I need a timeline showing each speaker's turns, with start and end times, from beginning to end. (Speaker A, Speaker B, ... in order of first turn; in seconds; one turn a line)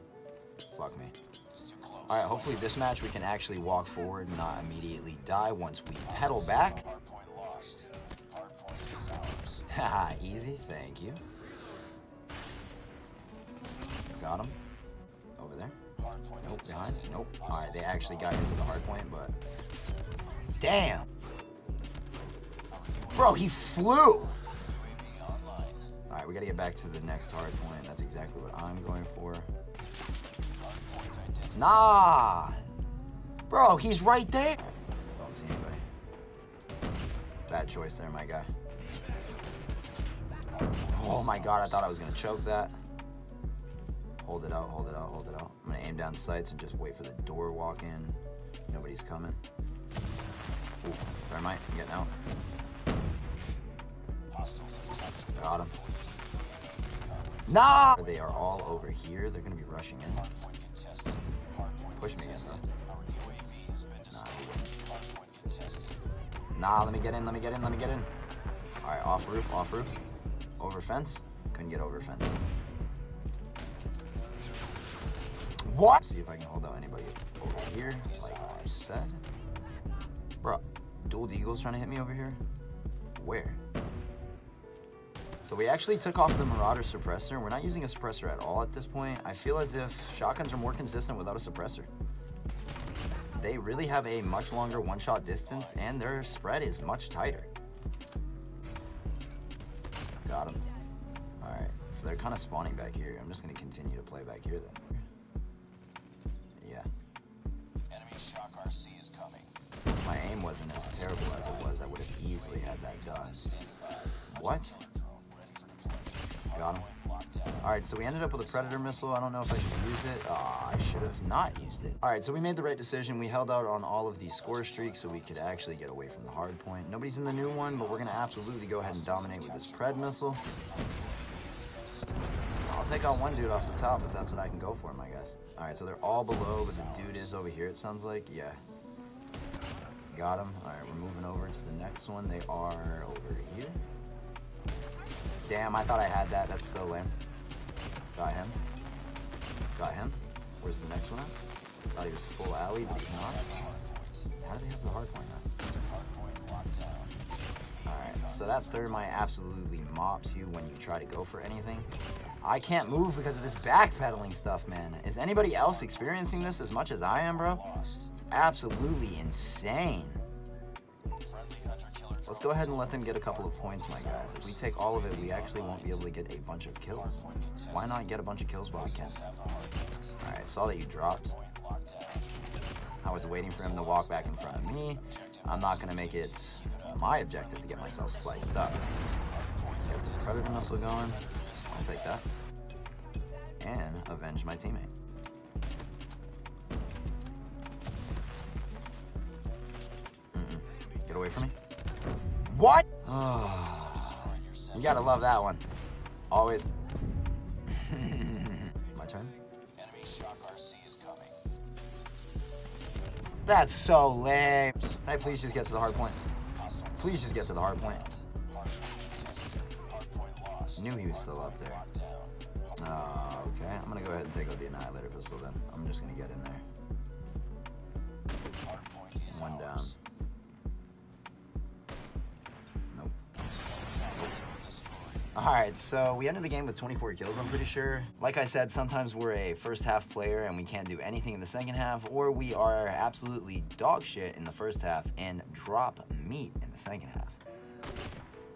Speaker A: 0.7-1.1
Speaker B: 1.5-2.6
Speaker A: 2.1-6.9
Speaker B: 6.2-9.6
Speaker A: 9.7-11.2
Speaker A: 14.1-14.6
Speaker A: 15.4-15.8
Speaker B: 16.0-18.5
Speaker A: 16.4-19.4
Speaker A: 20.6-21.1
Speaker B: 22.7-23.3
Speaker A: 23.1-24.4
Speaker B: 24.7-25.9
Speaker A: 26.1-29.5
Speaker B: 30.6-31.6
Speaker A: 31.5-32.6
Speaker A: 33.5-35.8
Speaker A: 37.5-38.5
Speaker B: 40.6-41.6
Speaker A: 40.9-42.7
Speaker A: 44.2-49.4
Speaker A: 50.8-52.1
Speaker B: 54.3-57.4
Speaker A: 55.3-55.7
Speaker A: 57.5-60.3
Speaker B: 60.2-66.0
Speaker A: 62.0-62.6
Speaker A: 64.1-64.7
Speaker A: 66.5-68.1
Speaker A: 68.8-70.0
Speaker A: 70.6-72.4
Speaker A: 75.7-79.2
Speaker B: 78.0-78.6
Speaker A: 80.4-82.4
Speaker A: 83.1-83.6
Speaker A: 85.4-91.9
Speaker A: 93.3-97.5
Speaker A: 100.2-100.6
Speaker A: 101.4-104.9
Speaker A: 106.6-106.9
Speaker B: 107.9-109.5
Speaker A: 110.0-113.5
Speaker B: 110.7-117.6
Speaker A: 114.3-114.8
Speaker A: 116.5-116.9
Speaker A: 117.6-130.4
Speaker B: 118.3-118.9
Speaker B: 124.6-125.6
Speaker B: 127.7-133.9
Speaker A: 132.6-138.6
Speaker B: 136.1-137.2
Speaker A: 140.1-143.8
Speaker A: 145.4-147.1
Speaker A: 148.1-148.6
Speaker A: 149.7-151.3
Speaker A: 151.9-153.6
Speaker B: 153.1-154.2
Speaker A: 154.3-155.5
Speaker B: 155.7-157.2
Speaker B: 157.8-158.7
Speaker A: 157.8-161.9
Speaker A: 162.4-170.2
Speaker B: 165.7-166.3
Speaker B: 167.5-168.1
Speaker B: 171.2-176.0
Speaker A: 172.3-179.2
Speaker B: 177.1-177.9
Speaker B: 179.0-180.1
Speaker A: 180.2-181.3
Speaker B: 181.3-182.3
Speaker A: 183.0-188.9
Speaker B: 183.3-186.9
Speaker B: 187.8-188.1
Speaker B: 189.3-191.9
Speaker A: 189.7-192.2
Speaker A: 193.6-194.9
Speaker A: 200.3-201.5
Speaker A: 202.5-205.6
Speaker B: 203.6-204.9
Speaker A: 206.3-206.7
Speaker A: 207.7-209.3
Speaker B: 209.7-211.4
Speaker A: 213.4-216.2
Speaker B: 214.9-222.3
Speaker A: 217.0-218.1
Speaker A: 220.8-221.8
Speaker A: 222.8-226.6
Speaker B: 228.6-229.9
Speaker A: 229.3-230.0
Speaker A: 232.9-233.2
Speaker B: 233.8-235.2
Speaker A: 235.3-247.4